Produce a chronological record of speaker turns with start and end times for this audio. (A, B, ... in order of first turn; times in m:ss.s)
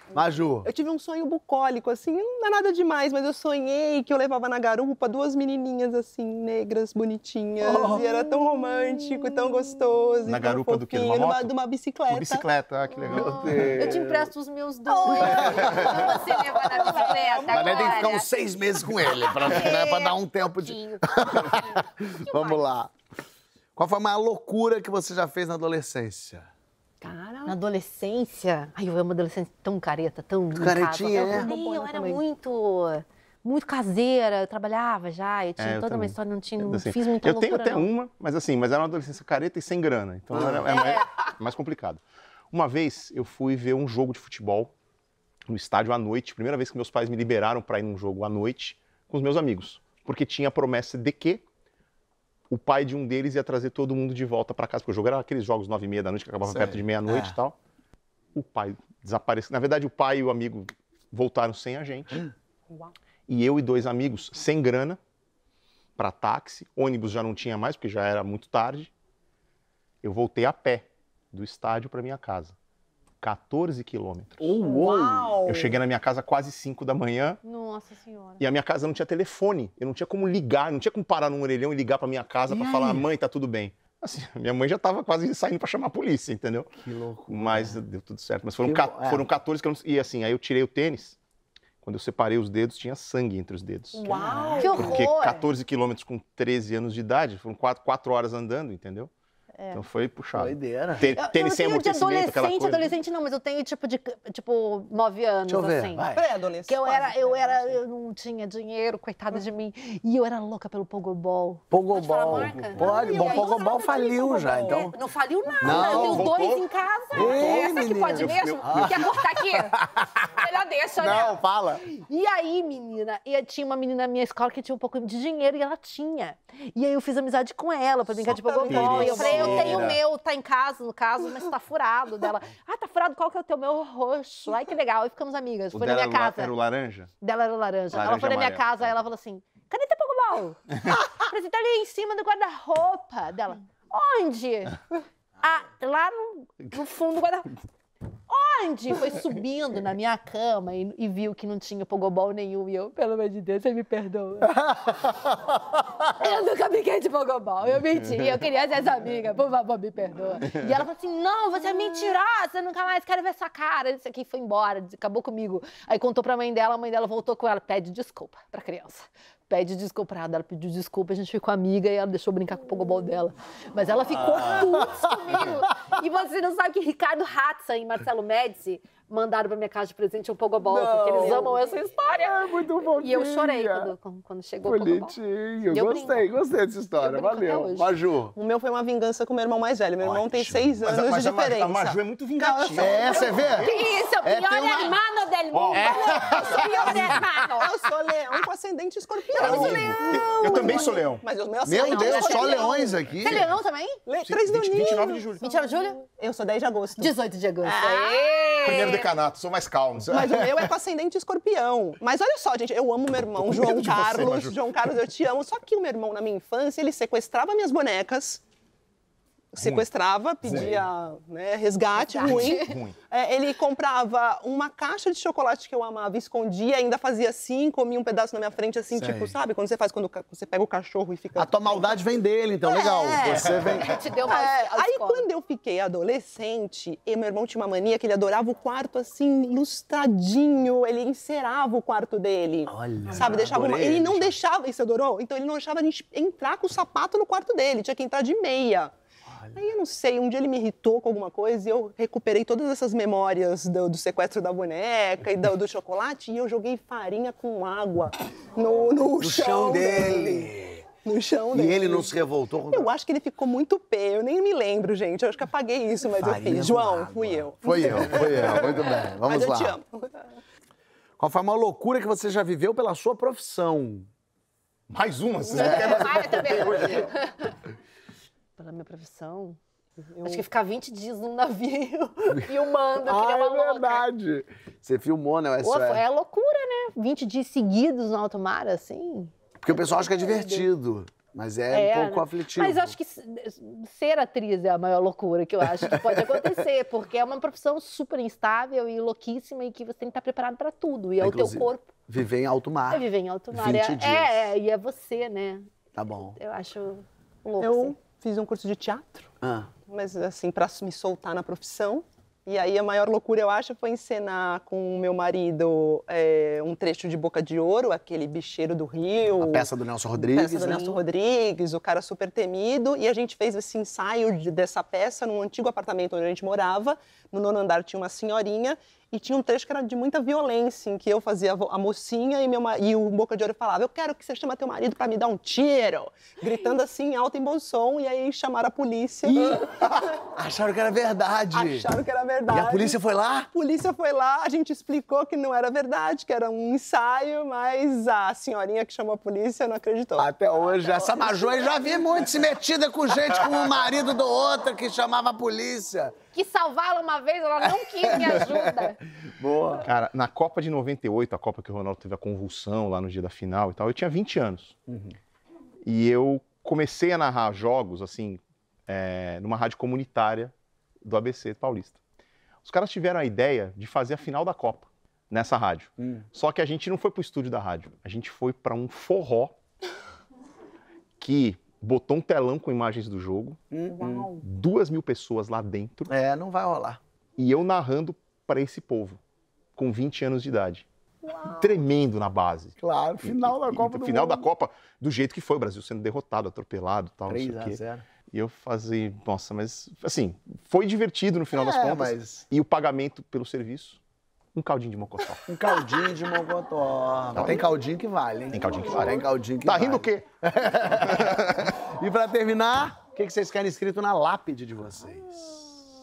0:00.1-0:00.7 A
0:00.1-0:12.4 B
0:07.6-0:08.1 A
0:10.2-0:11.5 C
0:12.1-0:13.8 C
0:13.0-0:18.3 D
0:13.1-0:14.3 A
0:14.9-0:18.1 B
0:15.2-0:22.9 A
0:19.1-0:22.6 D
0:23.8-0:26.5 A
0:27.0-0:27.6 B
0:27.4-0:37.9 D
0:30.6-0:31.5 A
0:31.1-0:32.2 B
0:35.6-0:44.7 C
0:40.3-0:40.6 A
0:40.7-0:41.2 D
0:45.5-0:51.4 C
0:52.5-0:57.6 C
0:56.4-0:57.4 A
0:58.3-1:02.2 C
1:03.3-1:05.0 C
1:06.0-1:08.9 C
1:10.0-1:12.6 C
1:13.2-1:14.6 C
1:14.4-1:15.4 A
1:14.6-1:15.8 B
1:15.4-1:17.4 C
1:17.4-1:18.4 D
1:18.4-1:26.7 C
1:22.5-1:23.1 A
1:26.8-1:27.8 A
1:27.3-1:31.2 C
1:28.6-1:29.3 A
1:31.8-1:34.0 C
1:33.9-1:34.8 B
1:34.1-1:35.0 A
1:34.1-1:35.4 D
1:34.7-1:39.1 C
1:39.7-1:42.9 C
1:40.3-1:41.2 A
1:41.1-2:16.5 D
1:45.5-1:46.2 A
1:46.1-1:47.8 B
1:51.7-1:54.9 A
1:52.3-1:52.9 C
1:52.8-1:53.7 B
1:54.4-1:54.9 B
1:55.6-1:56.3 A
1:55.6-1:59.2 C
1:57.1-2:00.2 A
2:01.0-2:01.8 A
2:08.2-2:09.9 B
2:08.7-2:10.0 C
2:08.7-2:09.6 A
2:15.7-2:17.1 C
2:17.2-2:24.8 D
2:17.9-2:19.0 C
2:25.4-2:27.5 D
2:28.3-2:35.3 D
2:34.6-2:34.9 A
2:36.0-3:06.3 D
3:00.6-3:01.6 A
3:01.1-3:01.5 B
3:02.1-3:03.9 A
3:04.6-3:08.3 A
3:07.0-3:07.9 D
3:08.3-3:13.4 B
3:10.0-3:13.9 C
3:12.8-3:13.7 A
3:13.1-3:17.7 D
3:14.2-3:15.0 A
3:15.5-3:17.2 C
3:16.6-3:22.9 B
3:19.3-3:21.0 D
3:19.4-3:21.2 C
3:21.6-3:23.5 A
3:21.8-3:24.0 D
3:24.1-3:27.1 B
3:24.2-3:25.4 C
3:25.4-3:26.0 D
3:27.0-3:29.1 D
3:27.6-3:28.9 B
3:28.6-3:30.7 C
3:30.1-3:38.4 B
3:33.4-3:34.6 C
3:39.5-3:52.0 B
3:39.6-3:39.8 C
3:40.4-3:40.9 C
3:41.9-3:42.8 D
3:42.2-3:43.0 C
3:48.9-3:49.3 A
3:51.4-3:53.9 A
3:52.7-3:53.5 B
3:52.7-3:55.2 D
3:54.2-4:08.9 B
4:02.7-4:04.4 A
4:09.3-4:09.6 A
4:09.6-4:20.5 B
4:19.2-4:20.8 A
4:21.0-4:22.1 B
4:21.5-4:22.9 A
4:22.7-4:30.2 B
4:26.2-4:29.8 A
4:31.2-4:34.1 A
4:34.9-4:37.1 C
4:35.5-4:37.6 D
4:38.6-4:39.6 D
4:40.0-4:40.4 B
4:40.2-4:44.1 D
4:43.0-4:46.0 A
4:45.6-4:50.7 D
4:49.6-4:53.0 A
4:51.7-5:01.9 D
5:01.2-5:04.5 A
5:02.9-5:05.7 D
5:05.9-5:06.4 A
5:06.2-5:07.9 D
5:07.6-5:09.3 B
5:09.4-5:09.7 A
5:09.9-5:39.6 B
5:19.4-5:21.0 A
5:39.3-5:41.9 A
5:41.5-5:50.3 B
5:42.5-5:43.5 A
5:50.2-5:56.2 A
5:56.3-5:59.0 D
5:57.8-5:59.8 A
5:59.8-6:04.8 C
6:04.9-6:05.1 A
6:05.8-6:12.0 C
6:12.6-6:19.6 C
6:16.0-6:16.2 A
6:21.2-6:23.6 C
6:23.7-6:24.3 A
6:23.9-6:24.4 B
6:24.4-6:26.1 C
6:26.1-6:27.0 A
6:27.4-6:29.2 C
6:29.8-6:30.9 C
6:31.3-6:31.7 B
6:31.5-6:37.8 C
6:32.8-6:34.5 A
6:37.3-6:38.0 A
6:38.3-6:44.0 C
6:41.5-6:42.4 A
6:44.5-6:45.5 C
6:45.5-6:55.6 A
6:47.3-6:47.6 C
6:48.5-6:50.2 C
6:50.9-6:51.7 C